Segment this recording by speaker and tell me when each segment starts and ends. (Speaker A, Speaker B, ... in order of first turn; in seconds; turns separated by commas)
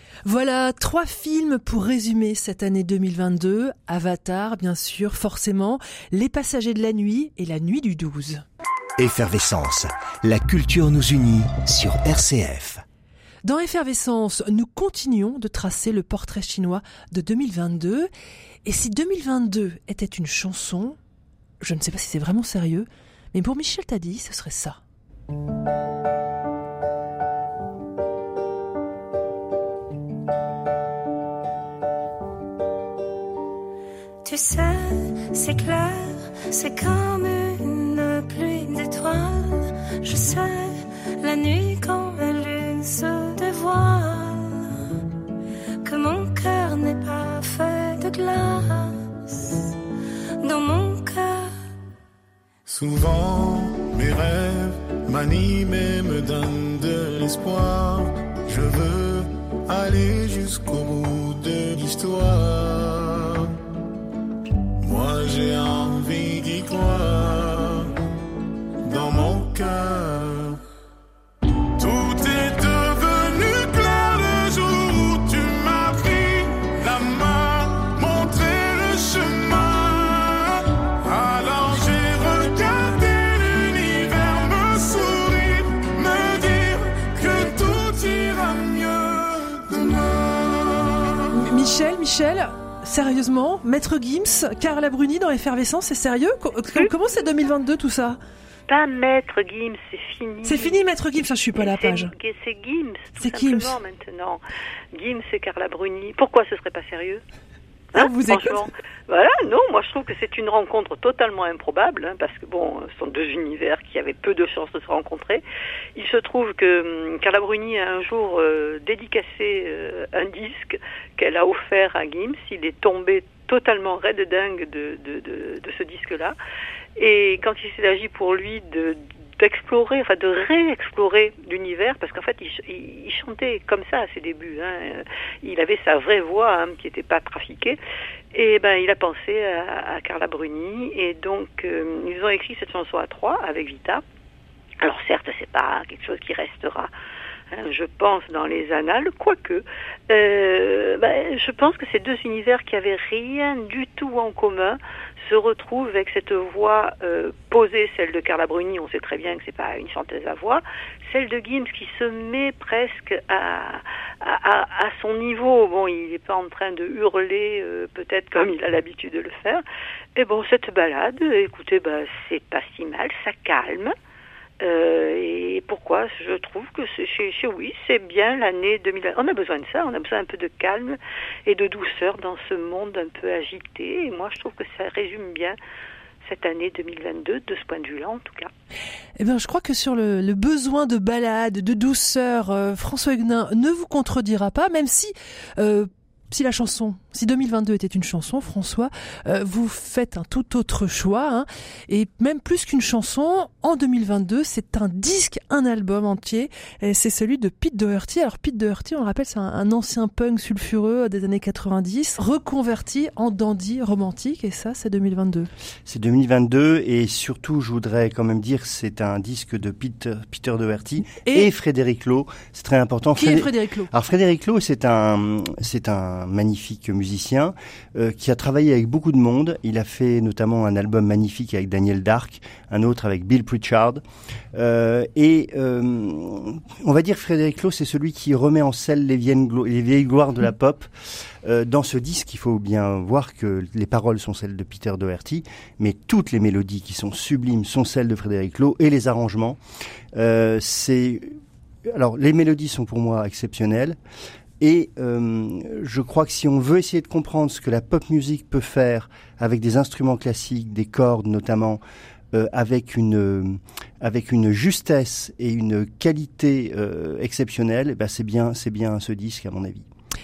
Speaker A: 0.2-8.4, Speaker B: 9.0-12.8, Speaker A: 13.4-18.1, Speaker A: 18.6-21.0, Speaker A: 21.6-24.8, Speaker C: 34.2-44.7, Speaker C: 45.8-49.7, Speaker C: 50.4-51.5, Speaker D: 52.7-63.5, Speaker D: 64.8-67.9, Speaker D: 68.8-70.6, Speaker D: 71.8-91.0, Speaker A: 91.3-98.2, Speaker E: 98.7-100.8, Speaker A: 100.4-102.1, Speaker E: 101.5-104.4, Speaker A: 103.2-103.7, Speaker E: 104.9-107.2, Speaker A: 107.9-108.7, Speaker E: 108.0-115.4, Speaker E: 116.0-126.4, Speaker E: 127.0-137.8, Speaker E: 138.3-144.0, Speaker E: 144.8-146.9, Speaker E: 147.5-169.6, Speaker E: 170.2-173.9, Speaker E: 174.6-185.6, Speaker E: 186.2-188.5, Speaker A: 189.2-215.5, Speaker F: 215.9-234.0, Speaker A: 221.1-221.5, Speaker A: 223.2-223.9, Speaker F: 234.5-240.9, Speaker F: 241.4-249.6, Speaker F: 250.1-254.0, Speaker F: 254.6-261.8, Speaker F: 262.3-269.9